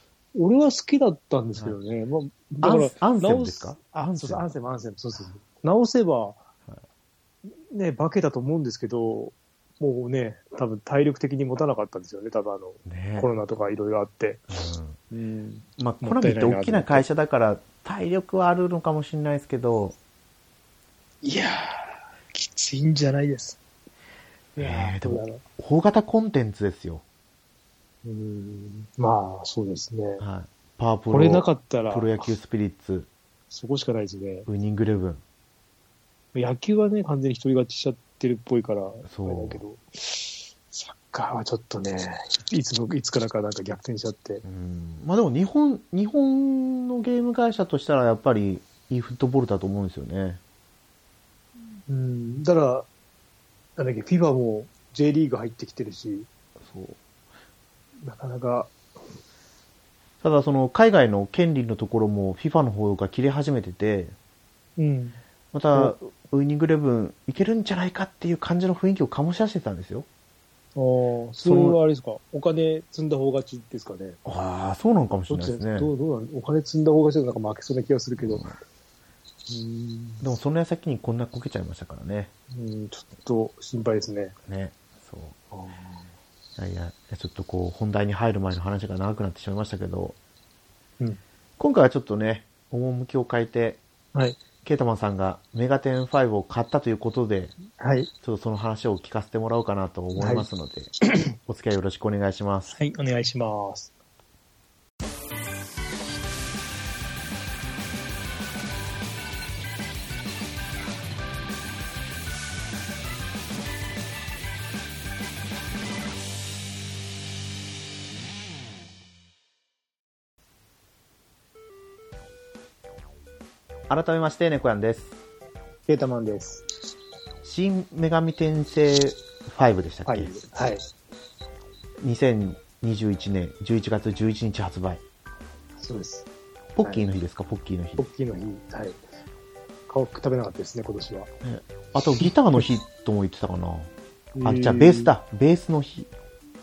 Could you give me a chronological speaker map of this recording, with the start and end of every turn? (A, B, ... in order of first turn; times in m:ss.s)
0:00.3-0:06.4 A
0:02.6-0:04.5 B
0:07.7-0:14.5 A
0:12.8-0:13.3 B
0:14.5-0:15.0 B
0:15.1-0:17.0 A
0:15.8-0:20.0 B
0:21.2-0:23.6 A
0:24.6-0:25.4 A
0:24.6-0:27.0 B
0:28.0-0:30.2 A
0:30.2-0:33.1 B
0:31.1-0:32.3 A
0:33.5-0:34.5 A
0:34.5-0:35.2 B
0:36.3-0:44.4 A
0:39.0-0:39.6 B
0:44.4-0:50.4 B
0:51.9-0:52.9 A
0:53.8-0:56.3 A
0:56.6-0:57.0 B
0:58.0-0:58.7 A
1:00.2-1:04.1 B
1:04.8-1:05.2 A
1:05.5-1:10.0 B
1:10.8-1:14.2 A
1:11.4-1:11.8 B
1:14.2-1:15.9 B
1:15.3-1:18.5 A
1:18.2-1:18.5 B
1:19.5-1:20.2 A
1:20.2-1:22.3 B
1:22.5-1:24.4 A
1:24.5-1:25.4 B
1:25.5-1:26.1 A
1:26.6-1:30.2 B
1:31.6-1:33.8 B
1:34.6-1:37.6 B
1:37.8-1:38.1 A
1:38.2-1:42.7 B
1:40.2-1:40.5 A
1:42.7-1:43.9 A
2:03.9-2:05.1 B
2:05.9-2:06.7 A
2:07.4-2:10.3 B
2:10.0-2:10.8 A
2:12.0-2:15.0 B
2:15.8-2:16.3 A
2:16.8-2:18.0 B
2:16.8-2:17.1 A
2:18.0-2:19.0 A
2:19.9-2:21.3 A
2:21.4-2:23.9 B
2:22.2-2:22.7 A
2:24.3-2:25.1 A
2:24.4-2:26.1 B